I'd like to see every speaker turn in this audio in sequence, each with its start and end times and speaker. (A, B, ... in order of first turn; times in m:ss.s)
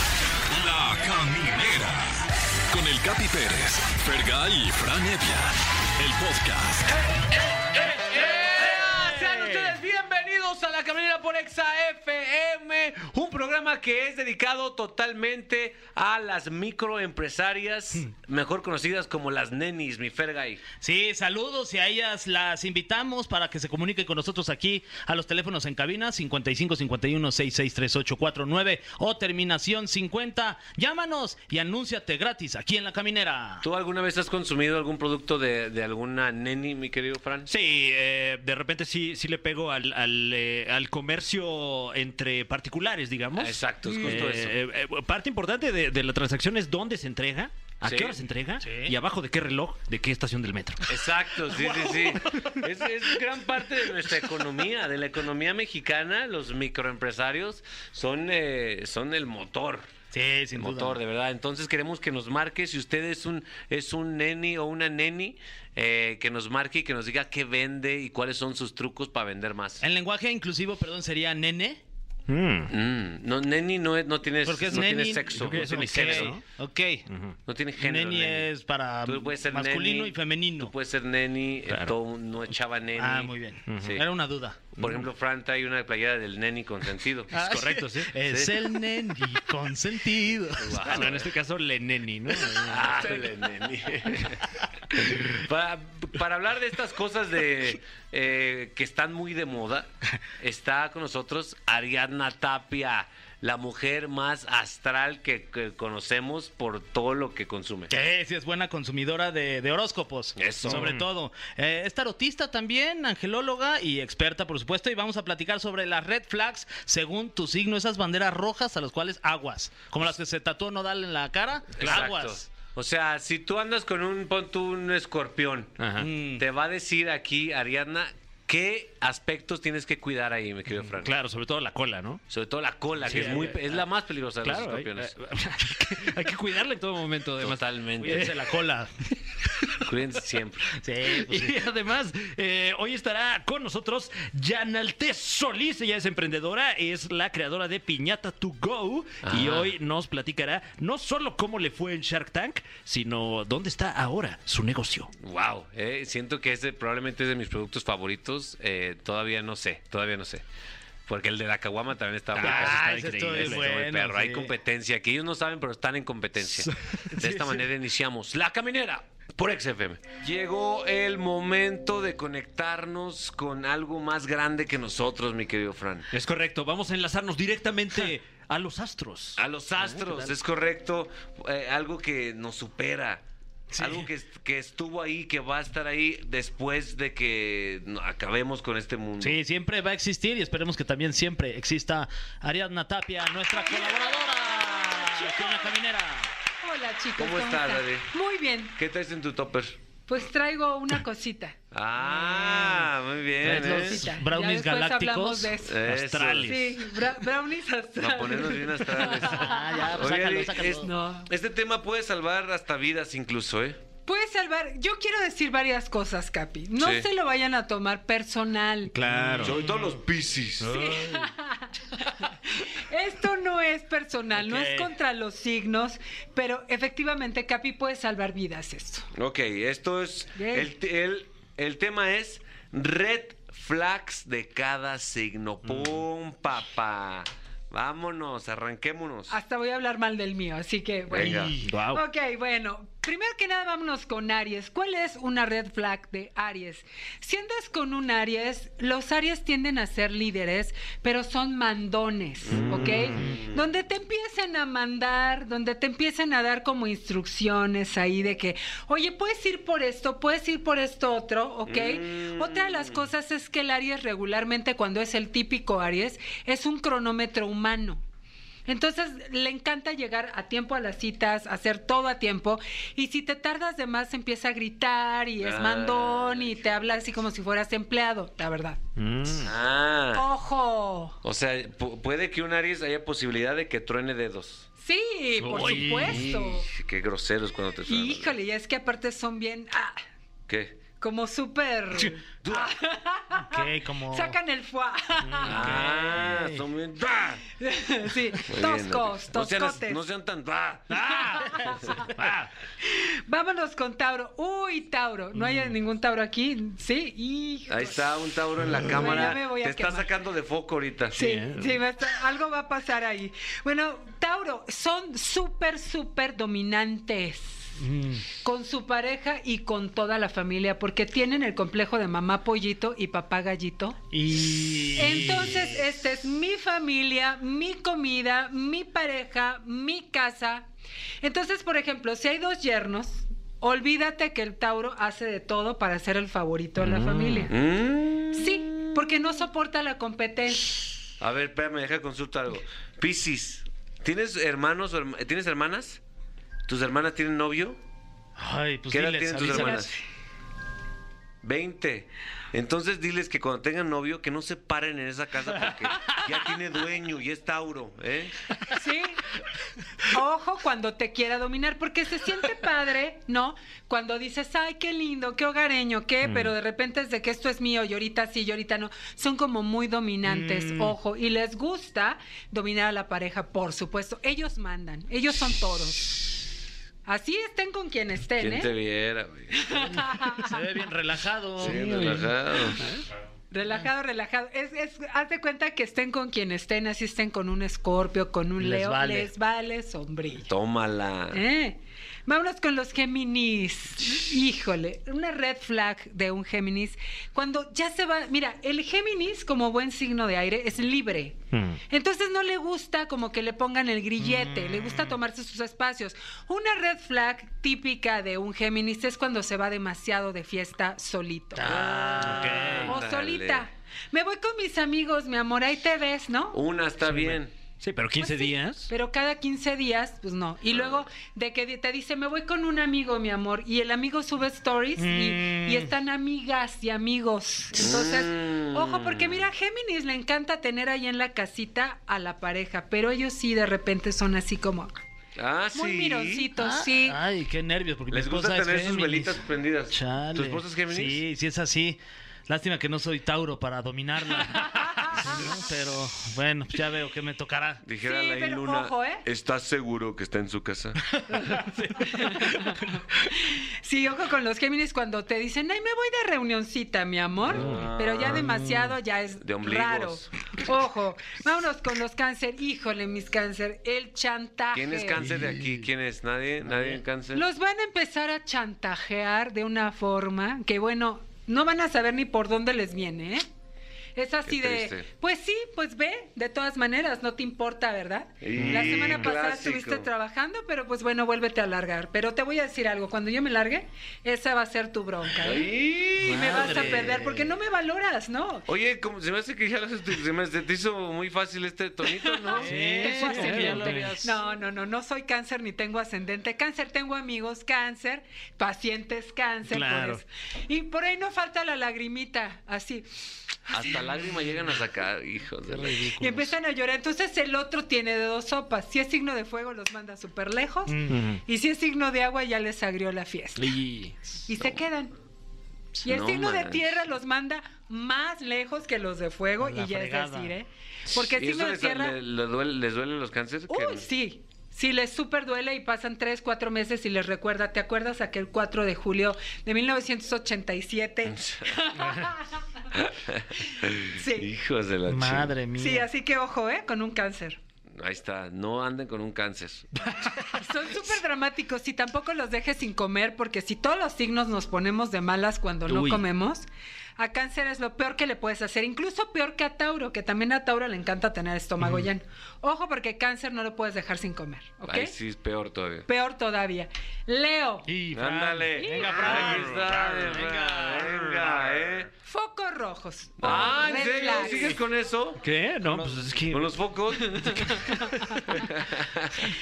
0:00.5-0:02.0 A
0:02.7-0:06.9 A
0:07.1-0:20.6 B
0:09.2-0:09.7 C
0:20.8-0:33.6 C
0:33.6-0:37.5 B
0:37.5-0:51.0 D
0:43.4-0:44.6 B
0:47.8-0:48.2 B
0:48.6-0:48.9 C
0:50.9-0:59.9 B
0:51.5-0:52.2 C
1:00.1-1:01.0 C
1:00.5-1:09.8 B
1:09.8-1:11.8 C
1:12.3-1:12.7 D
1:12.7-1:16.4 B
1:14.4-1:17.1 C
1:15.4-1:16.4 D
1:17.1-1:17.4 D
1:17.5-1:18.5 B
1:17.8-1:20.7 C
1:19.0-1:24.0 B
1:21.7-1:21.9 D
1:23.0-1:24.6 C
1:23.7-1:24.0 D
1:24.8-1:25.0 D
1:24.8-1:27.3 B
1:27.3-1:28.1 D
1:27.3-1:31.1 C
1:28.3-1:28.5 B
1:30.6-1:31.3 B
1:30.8-1:33.2 D
1:32.7-1:47.9 B
1:47.9-2:02.4 C
1:50.4-1:50.9 B
1:50.6-1:51.1 D
2:01.8-2:05.8 B
2:05.8-2:06.1 D
2:06.0-2:06.4 C
2:06.3-2:11.1 B
2:10.8-2:12.2 D
2:12.3-2:15.1 B
2:13.0-2:13.8 D
2:13.1-2:13.5 C
2:14.4-2:18.3 D
2:17.4-2:18.3 B
2:18.0-2:18.9 C
2:19.8-2:20.8 B
2:20.8-2:21.5 C
2:21.0-2:35.1 D
2:29.2-2:29.7 B
2:35.2-2:40.4 B
2:41.1-2:56.0 B
2:42.3-2:43.8 D
2:42.3-2:44.5 C
2:46.6-2:47.0 D
2:47.1-2:47.6 C
2:56.1-3:00.3 D
2:59.4-3:03.2 B
3:03.7-3:04.1 C
3:03.8-3:09.4 B
3:09.2-3:16.3 C
3:13.5-3:15.7 E
3:16.6-3:18.8 E
3:17.2-3:18.1 B
3:18.8-3:19.8 B
3:20.1-3:22.8 E
3:21.7-3:24.0 B
3:23.4-3:25.6 C
3:23.5-3:25.8 E
3:25.6-3:26.5 B
3:25.8-3:26.8 D
3:26.4-3:30.0 E
3:28.0-3:33.8 B
3:29.1-3:30.9 C
3:30.7-3:31.3 E
3:34.0-3:38.9 E
3:36.8-3:37.1 B
3:38.9-3:39.6 D
3:39.0-3:40.0 C
3:39.4-3:40.8 B
3:40.6-3:41.2 C
3:40.7-3:49.1 E
3:44.4-3:44.9 C
3:49.1-3:59.4 B
3:50.3-3:50.7 E
3:55.6-3:56.0 D
3:59.3-4:28.0 E
4:01.1-4:01.6 B
4:01.6-4:02.0 D
4:12.5-4:13.6 B
4:21.7-4:23.0 B
4:28.7-4:38.8 E
4:35.4-4:36.6 B
4:39.0-4:39.5 D
4:39.4-4:40.2 B
4:40.1-4:41.2 E
4:41.2-4:44.6 B
4:44.8-4:46.7 E
4:45.4-4:46.1 D
4:45.5-4:46.2 C
4:45.6-4:48.4 B
4:47.9-4:50.0 E
4:50.5-4:50.8 B
4:51.0-4:55.6 E
4:52.4-4:52.7 B
4:53.3-4:54.4 C
4:55.3-4:56.0 D
4:55.4-4:56.6 C
4:55.4-4:57.4 B
4:57.6-5:00.0 E
4:58.5-5:01.1 B
5:00.9-5:02.3 C
5:01.1-5:02.1 E
5:02.2-5:02.5 D
5:02.8-5:08.1 E
5:07.7-5:11.2 B
5:08.8-5:10.1 E
5:11.1-5:17.7 E
5:11.1-5:11.8 D
5:17.8-5:18.2 C
5:18.4-5:24.0 E
5:24.1-5:25.8 C
5:24.9-5:30.7 E
5:31.2-5:37.5 E
5:36.8-5:37.5 D
5:37.5-5:39.0 B
5:38.3-5:40.9 E
5:41.2-5:46.0 B
5:46.7-5:47.8 B
5:48.4-5:49.9 C
5:48.9-5:49.9 B
5:49.4-5:50.0 E
5:51.4-5:58.4 B
5:58.7-5:59.2 E
6:00.1-6:16.4 E
6:06.2-6:06.5 D
6:10.2-6:11.0 C
6:17.0-6:18.7 E
6:18.4-6:20.1 B
6:19.7-6:20.6 E
6:20.4-6:22.3 C
6:21.6-6:22.8 B
6:21.7-6:22.2 D
6:23.5-6:30.5 E
6:28.6-6:29.3 C
6:30.4-6:31.4 B
6:31.3-6:41.4 E
6:41.5-6:41.8 D
6:41.9-6:51.9 E
6:44.2-6:45.2 C
6:51.5-6:53.0 C
6:51.6-6:53.6 B
6:52.2-6:52.9 D
6:52.8-6:56.6 E
6:56.5-6:57.5 B
6:57.0-6:58.9 D
6:58.2-7:14.9 E
7:00.7-7:01.1 B
7:05.0-7:05.9 C
7:07.7-7:09.5 B
7:15.4-7:16.5 B
7:15.7-7:17.2 E
7:16.6-7:27.8 C
7:18.1-7:21.2 B
7:24.9-7:25.2 E
7:27.8-7:31.1 B
7:28.0-7:29.2 E
7:31.2-7:32.9 C
7:31.3-7:45.2 E
7:37.5-7:38.4 B
7:37.5-7:37.9 D
7:38.2-7:38.9 C
7:39.4-7:40.3 B
7:44.7-7:47.4 B
7:47.3-7:53.5 E
7:54.2-8:08.6 E
7:54.5-7:55.0 B
7:58.4-8:00.1 B
7:58.6-7:59.2 D
8:05.4-8:07.1 B
8:06.2-8:07.5 C
8:08.7-8:14.4 B
8:12.2-8:23.1 E
8:12.5-8:14.1 C
8:12.7-8:14.1 D
8:19.7-8:20.2 D
8:23.7-8:26.0 B
8:25.6-8:26.5 C
8:26.2-8:33.7 E
8:30.9-8:31.3 C
8:31.1-8:31.4 D
8:33.6-8:34.2 D
8:34.5-8:35.1 E
8:36.0-8:42.2 E
8:36.0-8:36.8 B
8:39.6-8:40.5 C
8:41.2-8:44.0 B
8:43.7-8:52.6 E
8:51.3-8:52.0 B
8:52.9-8:55.5 B
8:54.0-8:54.5 E
8:55.1-8:56.1 C
8:55.8-8:57.6 E
8:57.9-9:00.0 B
9:00.5-9:06.7 E
9:05.9-9:06.2 D
9:07.2-9:15.1 E
9:14.9-9:16.0 B
9:16.1-9:17.9 E
9:17.9-9:21.8 C
9:18.1-9:22.1 B
9:18.8-9:19.6 E
9:22.2-9:24.8 E
9:23.4-9:25.4 B
9:23.5-9:24.4 C
9:25.4-9:28.4 D
9:25.8-9:26.3 C
9:26.5-9:27.6 B
9:28.5-9:29.5 B